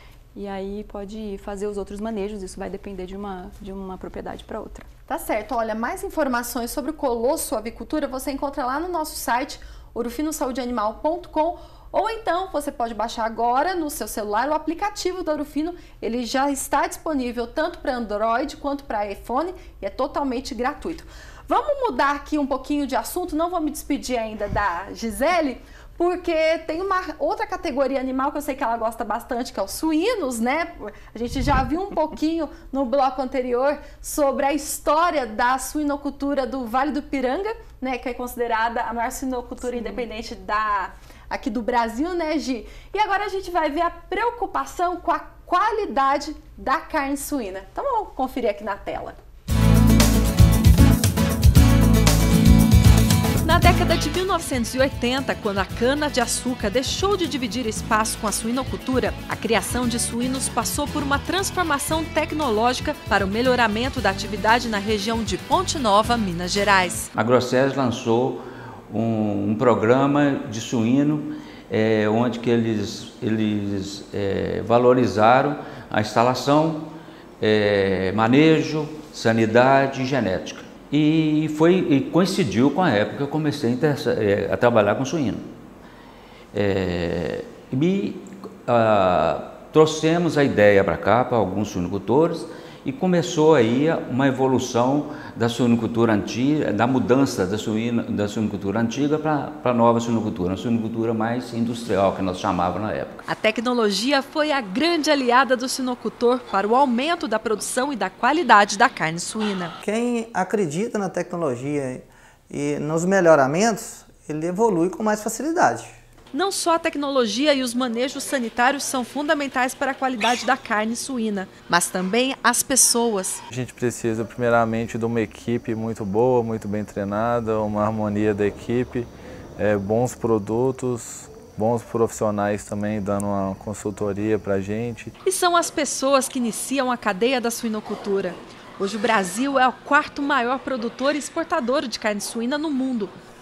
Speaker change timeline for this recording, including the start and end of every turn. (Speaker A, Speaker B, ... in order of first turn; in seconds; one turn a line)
Speaker A: 0.3-4.9
Speaker B: 5.1-49.2
Speaker A: 39.7-40.0
Speaker C: 53.4-67.1
Speaker D: 67.1-85.5
Speaker D: 86.5-103.2
Speaker C: 103.3-109.8
Speaker E: 109.8-116.0
Speaker C: 116.3-123.4
Speaker F: 123.5-135.1
Speaker C: 135.2-143.1